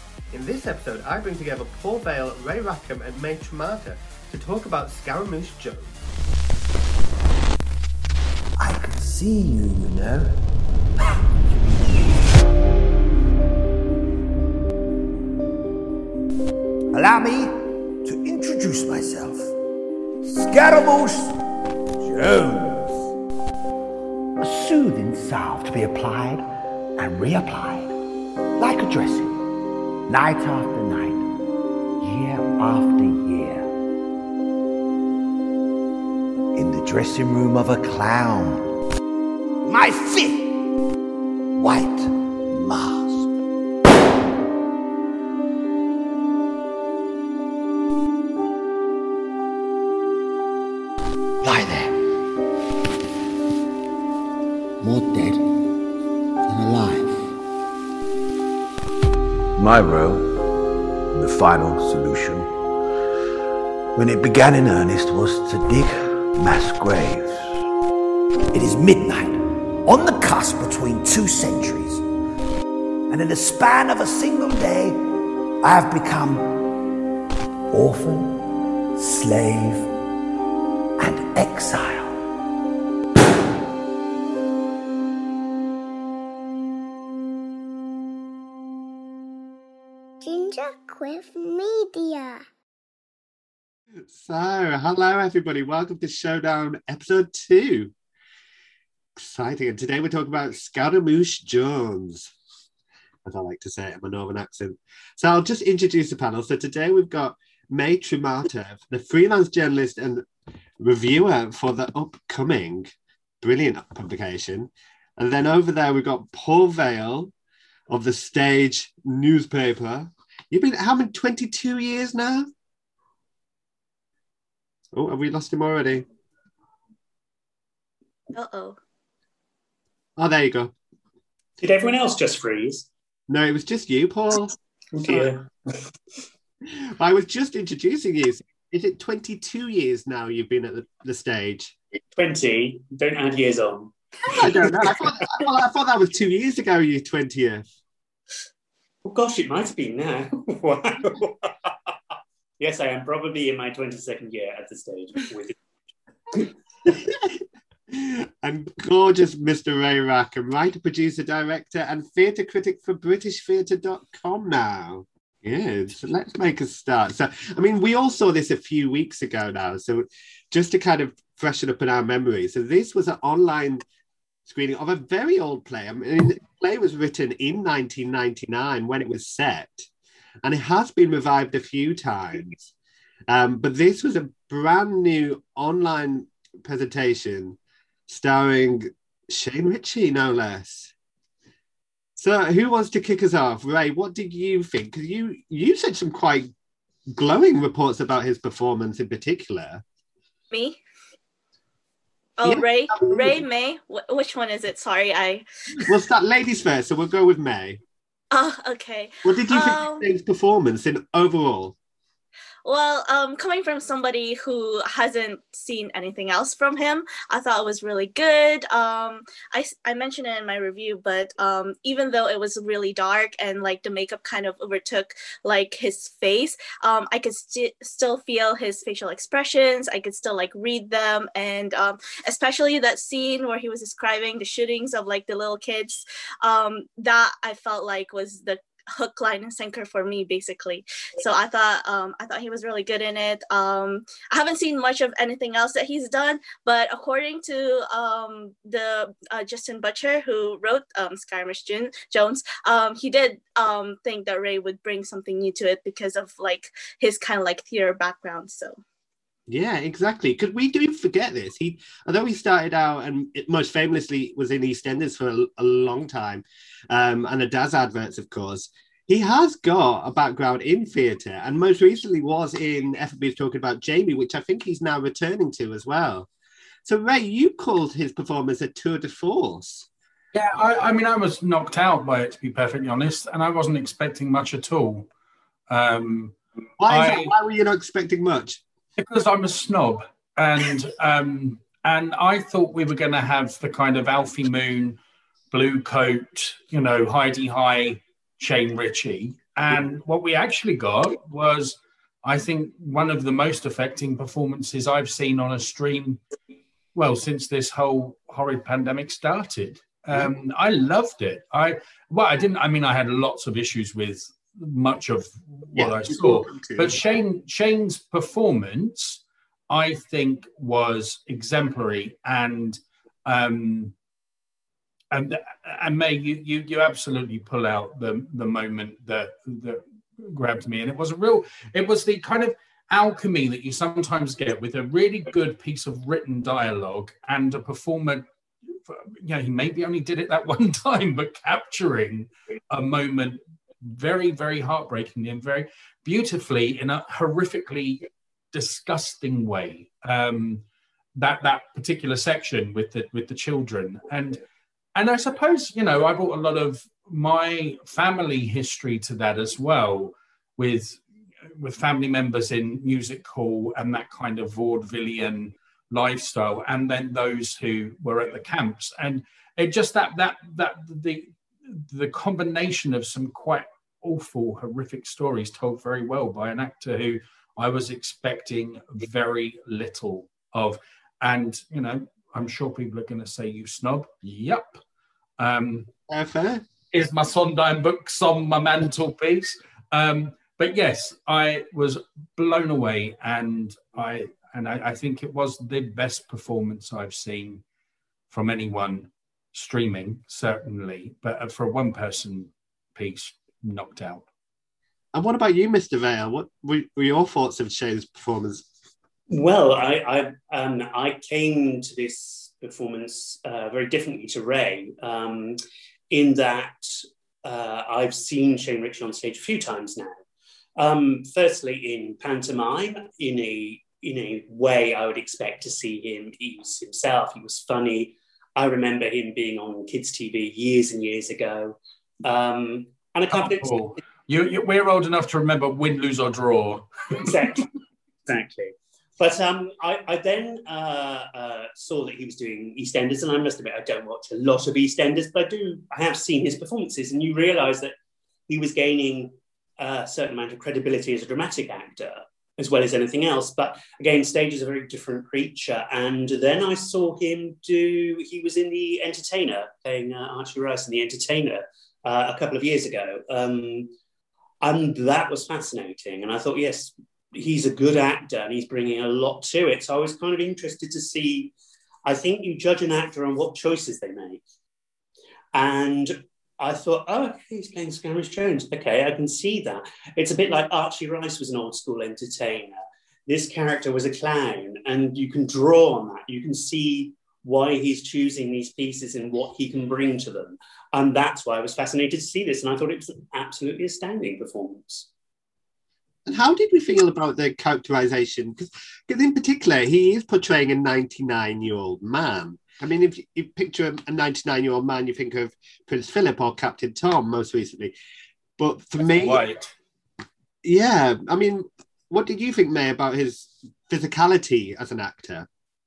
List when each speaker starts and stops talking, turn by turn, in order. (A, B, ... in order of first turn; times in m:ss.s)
0:00.3-0:05.9 A
0:08.6-0:10.4 B
0:16.9-0:19.5 B
0:20.3-0:21.4 B
0:22.0-0:23.1 B
0:24.4-0:26.5 B
0:27.0-0:27.9 B
0:28.6-0:29.4 B
0:30.1-0:31.2 B
0:32.0-0:33.7 B
0:36.5-0:38.7 B
0:39.7-0:40.5 B
0:41.6-0:43.3 B
0:51.4-0:52.0 B
0:54.8-0:55.4 B
0:56.5-0:57.3 B
0:59.6-1:00.4 B
1:01.1-1:02.5 B
1:04.0-1:07.5 B
1:08.5-1:12.0 B
1:13.1-1:15.0 B
1:15.6-1:16.7 B
1:17.7-1:19.9 B
1:21.0-1:22.2 B
1:30.2-1:32.4 C
1:34.0-1:37.9 A
1:39.2-1:42.3 A
1:43.2-1:50.2 A
1:50.8-1:57.3 A
1:57.9-2:02.5 A
2:04.9-2:06.0 A
2:08.3-2:08.8 D
2:10.2-2:10.7 A
2:11.6-2:12.9 E
2:13.3-2:15.3 A
2:14.9-2:15.4 E
2:16.7-2:21.8 A
2:22.2-2:24.4 E
2:24.3-2:27.7 A
2:29.0-2:31.9 E
2:32.6-2:35.6 E
2:36.8-2:53.8 A
2:54.5-2:59.9 A
3:00.4-3:02.7 A
3:03.3-3:10.9 A
3:12.2-3:16.5 A
3:17.1-3:19.8 A
3:20.5-3:20.8 D
3:22.4-3:25.4 D
3:22.4-3:23.4 A
3:25.8-3:27.8 A
3:28.3-3:30.0 D
3:29.2-3:31.8 A
3:32.6-4:18.8 D
4:19.5-4:36.3 A
4:36.8-4:39.9 A
4:40.3-4:45.1 F
4:45.7-4:46.4 F
4:46.8-4:48.6 A
4:46.9-4:47.3 F
4:49.0-4:55.0 F
4:55.5-5:06.2 F
5:07.0-5:23.9 F
5:15.8-5:16.9 A
5:25.1-5:38.2 F
5:38.9-5:50.6 F
5:51.2-5:54.4 F
5:55.0-6:24.8 F
6:25.4-6:25.9 F
6:26.1-6:26.6 A
6:26.9-6:37.6 F
6:38.3-6:44.3 F
6:45.1-6:48.7 A
6:49.3-6:55.6 E
6:56.1-6:56.8 E
6:57.4-7:00.2 E
7:00.8-7:13.8 E
7:13.3-7:17.6 F
7:17.2-7:17.7 E
7:18.3-7:27.9 E
7:28.5-7:43.9 E
7:44.6-7:51.5 E
7:52.1-7:54.4 E
7:55.5-8:15.1 E
8:16.3-8:27.9 A
8:28.6-8:29.4 A
8:29.1-8:29.7 F
8:30.6-8:35.5 A